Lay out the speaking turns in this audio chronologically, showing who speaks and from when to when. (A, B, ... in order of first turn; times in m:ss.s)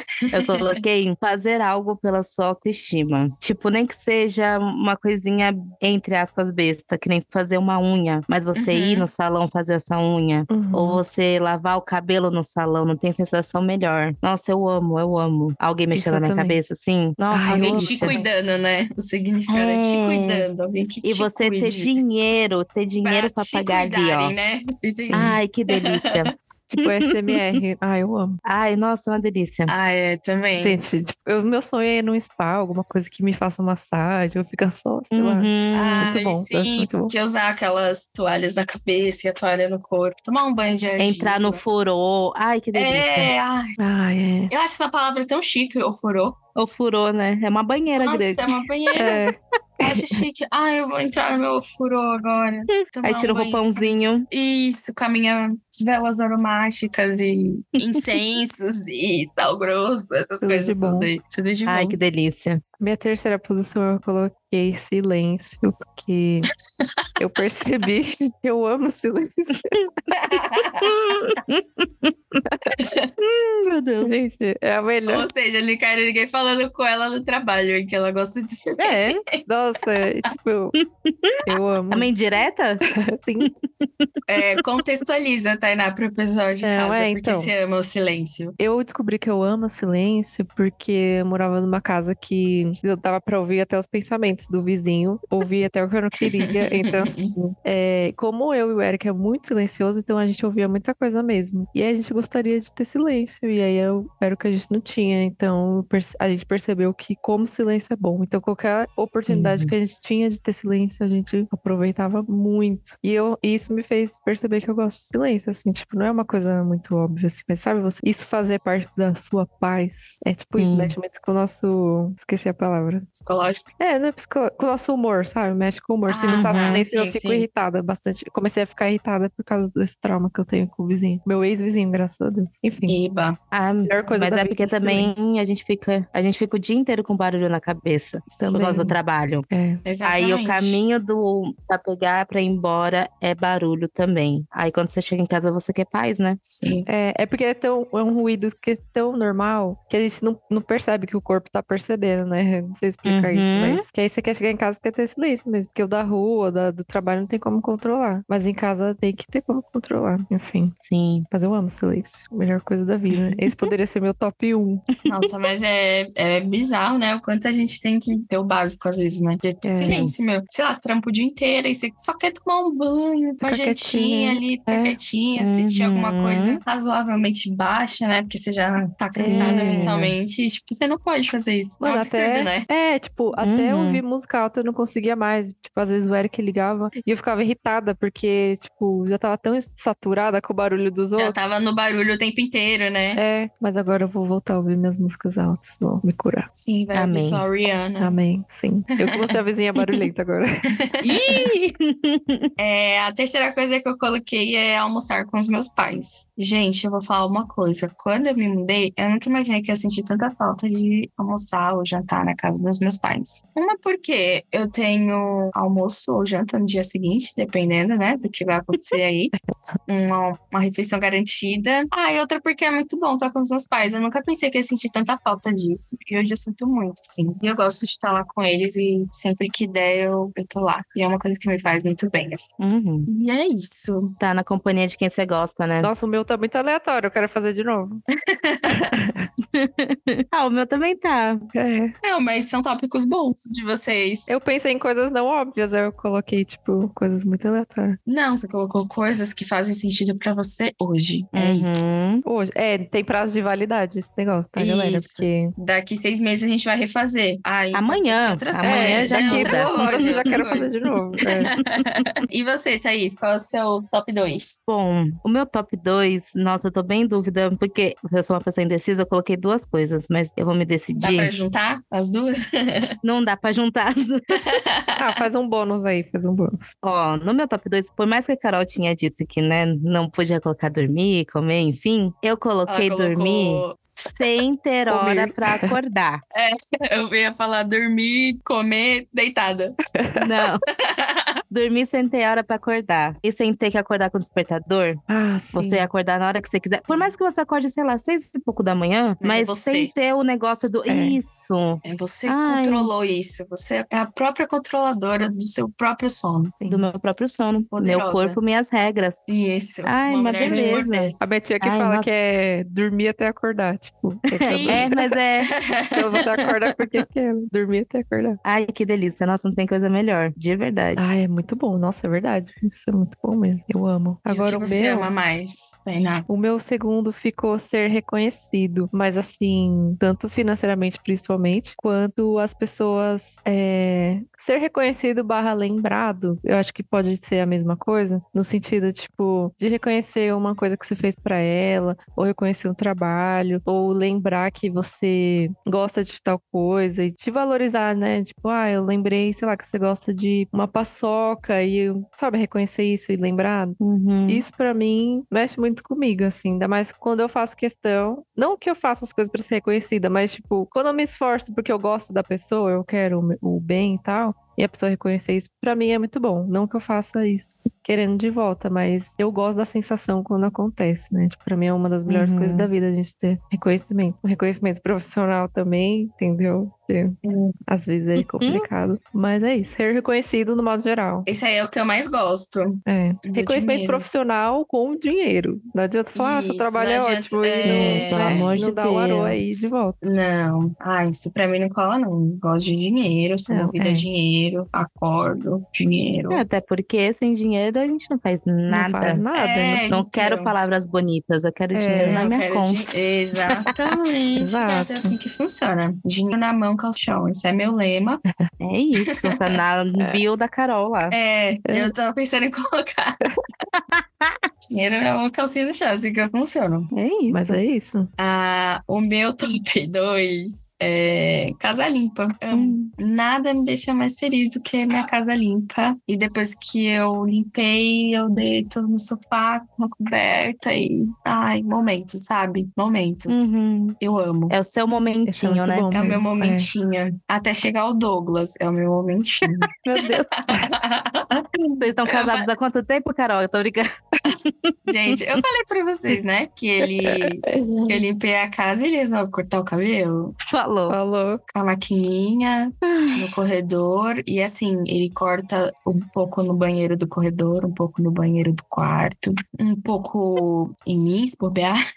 0:00.3-0:18.2 A
0:00.4-0:00.8 B
0:08.5-0:09.0 B
0:10.5-0:11.0 C
0:15.9-0:16.6 C
0:17.3-0:18.2 C
0:17.6-0:22.0 B
0:19.5-0:20.5 A
0:21.0-0:24.3 A
0:23.0-0:26.3 B
0:25.1-0:25.3 C
0:25.1-0:27.6 A
0:26.7-0:28.4 C
0:28.4-0:29.7 A
0:29.7-0:30.8 B
0:30.6-0:37.1 C
0:35.1-0:36.1 A
0:35.7-0:41.6 B
0:41.0-0:43.3 A
0:42.7-0:43.8 B
0:43.8-0:44.5 C
0:44.5-0:46.4 B
0:46.5-0:48.5 A
0:47.9-0:49.2 B
0:49.0-0:50.2 C
0:49.8-1:02.0 B
0:52.7-0:54.3 A
1:00.4-1:01.1 C
1:01.7-1:02.6 A
1:02.8-1:06.5 C
1:07.2-1:10.0 C
1:10.1-1:10.9 B
1:10.8-1:12.4 A
1:12.4-1:12.8 C
1:12.7-1:13.1 B
1:13.2-1:14.1 A
1:14.0-1:15.3 C
1:15.1-1:19.5 B
1:18.8-1:19.2 A
1:19.4-1:20.8 C
1:20.8-1:22.9 A
1:21.4-1:22.1 C
1:22.9-1:23.5 C
1:23.4-1:24.1 A
1:24.3-1:28.6 B
1:26.6-1:27.5 C
1:28.6-2:03.0 C
1:36.4-1:37.3 B
1:49.3-1:49.7 A
2:00.6-2:00.9 A
2:03.1-2:03.7 B
2:03.8-2:13.0 C
2:06.1-2:07.5 B
2:06.3-2:06.8 A
2:12.9-2:13.4 B
2:13.5-2:19.5 A
2:13.8-2:15.1 C
2:18.3-2:18.6 B
2:18.4-2:19.0 C
2:19.5-2:19.8 C
2:19.8-2:20.8 B
2:20.0-2:26.4 A
2:26.4-2:26.9 B
2:26.9-2:40.8 C
2:33.0-2:33.8 A
2:40.8-2:41.3 A
2:41.3-2:44.9 C
2:43.1-2:43.7 A
2:45.0-3:02.7 B
2:49.6-2:50.0 C
2:49.9-2:50.1 A
2:53.4-2:55.0 C
2:55.4-2:56.6 A
2:59.2-3:00.0 C
2:59.2-3:00.1 A
3:01.8-3:11.4 C
3:03.4-3:04.0 A
3:11.2-3:13.2 B
3:13.1-3:16.5 C
3:16.5-3:18.2 B
3:16.9-3:17.4 A
3:18.0-3:20.7 C
3:19.0-3:19.4 B
3:20.7-3:21.4 B
3:21.0-3:22.5 A
3:22.6-3:39.3 B
3:39.9-3:52.5 B
3:52.6-3:53.1 A
3:53.1-3:54.2 B
3:54.2-3:55.9 A
3:55.8-3:58.0 C
3:58.2-3:59.0 B
3:58.9-3:59.3 C
3:59.5-4:01.4 A
4:01.5-4:01.9 C
4:02.0-4:04.3 B
4:04.3-4:08.0 C
4:08.0-4:12.0 B
4:11.3-4:12.2 A
4:12.2-4:15.5 C
4:14.6-4:20.7 B
4:17.7-4:20.6 A
4:18.6-4:21.5 C
4:21.2-4:22.0 A
4:21.5-4:24.6 B
4:24.7-4:31.3 A
4:31.0-4:33.0 B
4:33.0-4:34.4 A
4:34.3-4:35.2 B
4:35.0-4:36.7 C
4:36.8-4:46.2 A
4:42.7-4:43.8 B
4:44.9-4:45.7 C
4:46.3-4:49.8 B
4:50.0-4:50.3 C
4:50.1-4:50.6 A
4:50.8-4:51.4 B
4:51.5-4:55.0 A
4:55.1-4:55.9 C
4:55.5-5:02.9 A
4:59.2-4:59.9 B
5:00.9-5:01.2 C
5:01.8-5:06.5 B
5:06.6-5:06.9 C
5:06.7-5:09.2 A
5:07.7-5:08.4 B
5:09.3-5:11.2 B
5:09.8-5:12.1 A
5:10.4-5:14.9 C
5:14.3-5:15.5 A
5:14.5-5:16.0 B
5:15.9-5:18.4 C
5:18.4-5:21.0 A
5:21.0-5:25.1 C
5:24.3-5:26.3 B
5:26.3-6:21.3 C
5:53.8-5:54.4 A
6:12.1-6:12.7 A
6:17.2-6:17.6 B
6:18.4-6:18.7 A
6:21.2-6:24.1 B
6:22.8-6:30.0 C
6:26.1-6:28.6 B
6:27.6-6:29.6 A
6:30.0-6:36.4 B
6:33.5-6:34.0 C
6:36.3-6:39.2 A
6:38.7-6:39.9 C
6:39.3-6:40.5 B
6:39.9-6:42.8 A
6:41.7-6:42.2 C
6:42.0-6:48.2 B
6:44.4-6:45.2 C
6:48.6-6:51.2 A
6:49.1-6:49.4 B
6:50.0-6:50.2 C
6:51.1-6:53.3 B
6:51.7-6:51.9 C
6:53.7-6:54.4 A
6:54.7-6:56.9 B
6:56.9-6:57.6 A
6:57.3-6:58.1 C
6:58.2-7:14.5 B
7:02.5-7:02.9 A
7:13.3-7:14.0 A
7:14.5-7:15.9 A
7:15.2-7:16.7 C
7:15.9-7:19.7 B
7:19.8-7:20.3 A
7:20.0-7:20.7 C
7:20.4-7:22.5 B
7:21.8-7:25.4 A
7:24.9-7:30.3 B
7:27.1-7:28.0 C
7:30.5-7:31.0 A
7:30.9-7:31.4 C
7:31.5-7:41.8 B
7:32.8-7:33.2 A